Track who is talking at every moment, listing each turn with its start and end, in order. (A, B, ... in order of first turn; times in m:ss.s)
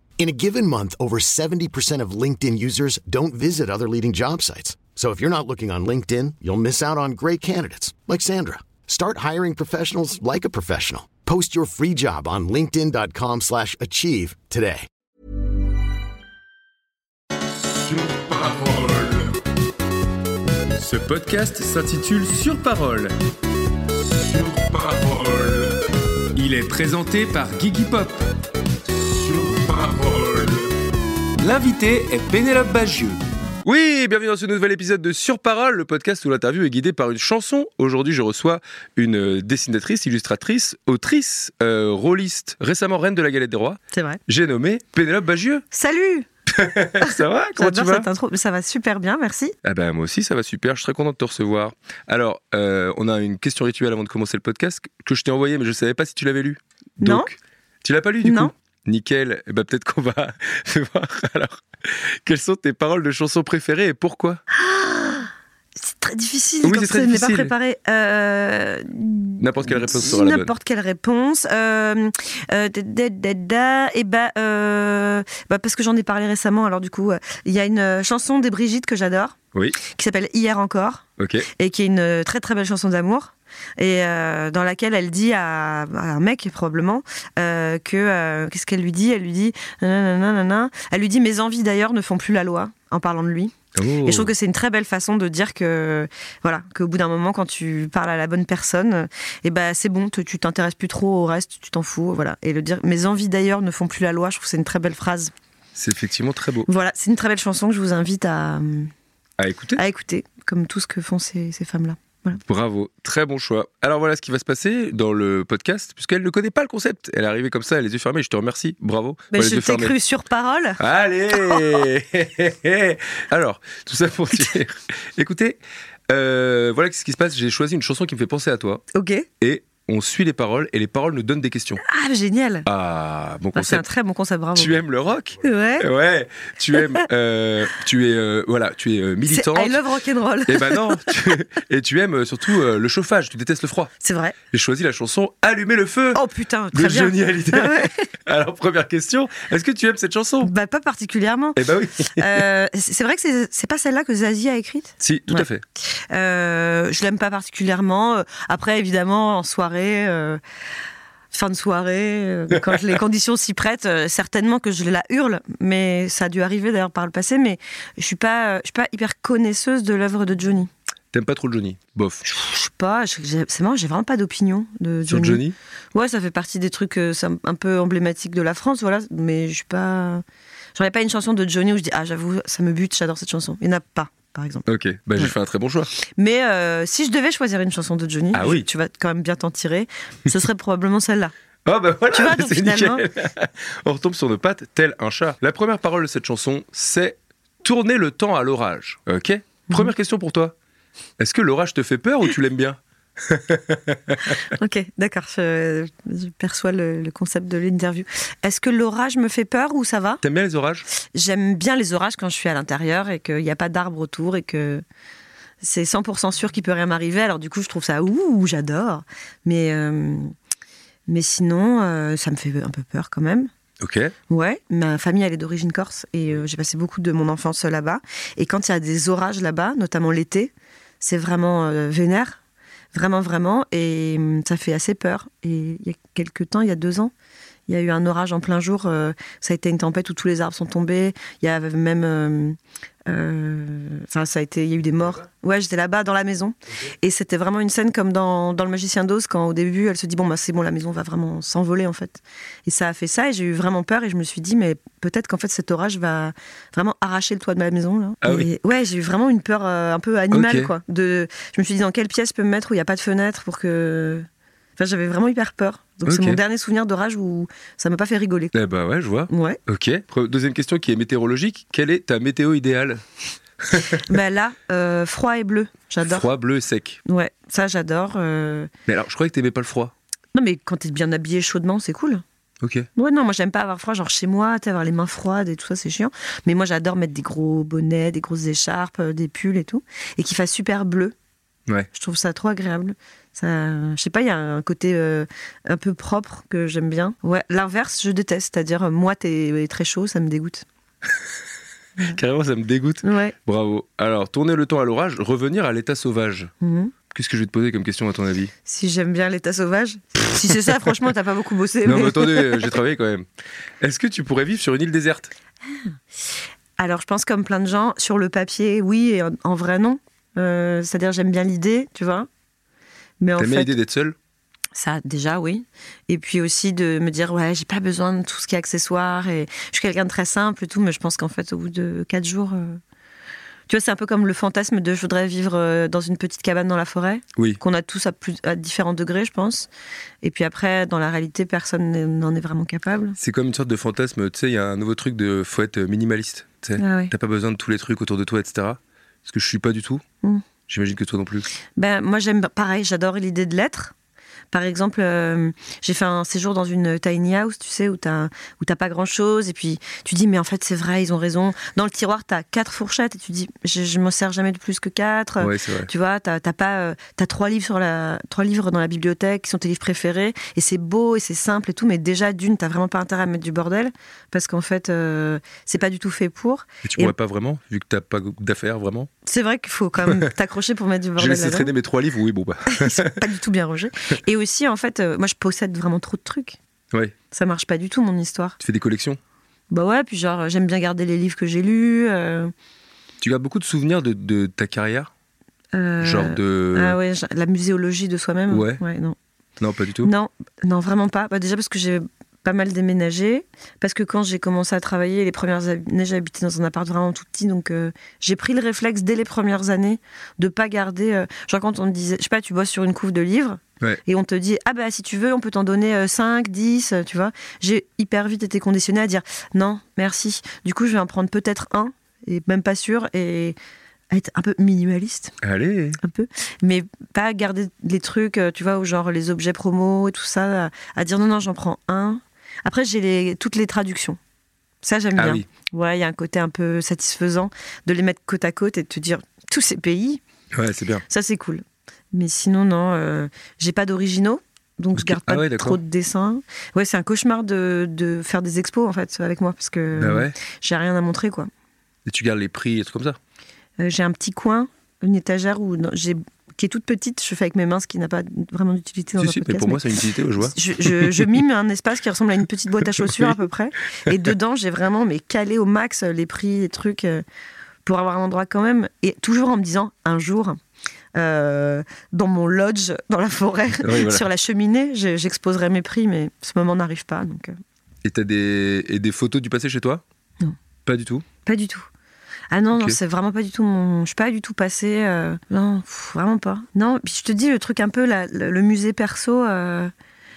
0:00.2-0:14.9 A
0:17.7-0:19.4 B
0:20.8-0:23.1 B
0:24.0-0:25.8 B
0:26.4-0:28.2 B
0:29.0-0:30.7 B
0:31.4-0:45.6 B
0:43.9-0:44.2 C
0:45.7-0:46.3 C
0:46.5-0:48.1 B
0:47.0-0:49.6 C
0:49.6-1:04.4 B
0:57.0-0:57.3 C
0:58.2-0:58.5 C
1:04.5-1:45.3 C
1:06.6-1:07.5 B
1:09.4-1:10.5 B
1:21.2-1:21.5 B
1:33.8-1:34.3 B
1:45.8-1:46.7 B
1:46.7-1:48.9 C
1:49.4-1:49.8 B
1:49.8-1:52.4 C
1:52.4-2:00.0 B
1:59.3-2:00.8 C
2:00.8-2:08.8 B
2:01.3-2:01.8 C
2:08.9-2:09.3 C
2:09.4-2:11.8 B
2:11.8-2:12.7 C
2:12.6-2:13.9 B
2:13.5-2:14.7 C
2:14.6-2:19.8 B
2:15.4-2:15.9 C
2:16.8-2:17.0 C
2:19.3-2:21.4 C
2:20.5-2:23.9 B
2:24.0-2:24.4 C
2:24.5-2:26.2 B
2:26.1-2:28.1 C
2:26.7-2:30.5 B
2:30.4-2:40.4 C
2:31.6-2:32.4 B
2:35.0-2:35.6 B
2:41.3-2:50.7 C
2:42.5-2:42.8 B
2:51.1-2:52.2 B
2:52.2-2:55.4 C
2:55.0-2:55.6 B
2:55.9-3:00.2 C
3:00.8-3:05.3 C
3:04.7-3:05.9 B
3:06.0-3:11.3 C
3:08.3-3:08.7 B
3:11.7-3:20.5 B
3:12.1-3:13.0 C
3:21.2-3:24.4 B
3:24.2-3:30.2 C
3:30.2-3:30.9 B
3:31.1-3:34.8 C
3:35.6-3:40.3 C
3:41.1-3:43.5 C
3:43.8-3:44.1 B
3:44.3-3:52.4 C
3:52.9-3:57.1 C
3:57.7-4:24.3 C
4:18.2-4:18.5 B
4:20.3-4:20.7 B
4:24.8-4:28.5 C
4:26.0-4:26.4 B
4:28.5-4:33.0 B
4:29.3-4:29.6 C
4:33.6-4:34.0 B
4:33.8-4:36.3 C
4:36.0-4:37.0 B
4:37.0-4:38.7 C
4:38.9-4:39.9 B
4:40.3-4:42.2 C
4:42.6-4:42.9 B
4:43.0-4:51.2 C
4:51.9-5:00.6 C
5:02.1-5:06.5 B
5:03.0-5:03.4 C
5:06.6-5:06.9 C
5:07.1-5:08.5 B
5:08.6-5:12.8 C
5:11.8-5:13.3 B
5:13.8-5:15.3 B
5:16.8-5:22.3 C
5:23.2-5:23.7 C
5:23.4-5:24.2 B
5:24.8-5:32.8 C
5:33.7-5:39.7 C
5:40.2-5:43.2 C
5:43.2-5:50.0 B
5:46.8-5:47.1 C
5:50.7-5:51.5 B
5:51.8-5:53.9 C
5:54.5-6:17.1 C
6:05.4-6:05.9 B
6:16.8-6:19.1 B
6:19.2-6:21.7 C
6:21.2-6:23.2 B
6:22.7-6:26.6 C
6:27.3-6:28.6 C
6:28.6-6:29.2 B
6:29.7-6:32.5 C
6:33.2-6:35.1 B
6:35.7-6:39.2 C
6:36.0-6:37.0 B
6:38.5-6:38.8 B
6:39.6-6:40.1 B
6:40.0-7:03.6 C
7:04.1-7:05.4 C
7:05.4-7:06.0 B
7:06.0-7:14.2 C
7:14.8-7:20.2 C
7:15.2-7:15.4 B
7:20.5-7:21.0 B
7:21.1-7:31.5 C
7:25.0-7:25.8 B
7:30.0-7:30.4 B
7:32.1-7:33.2 B
7:33.8-7:39.8 C
7:39.2-7:41.3 B
7:40.4-7:47.2 C
7:43.0-7:43.3 B
7:47.8-7:50.6 C
7:51.2-7:57.5 C
7:53.8-7:54.3 B
7:58.0-8:00.0 B
8:00.9-8:01.3 B
8:01.4-8:01.9 C
8:02.5-8:09.9 C
8:02.7-8:03.0 B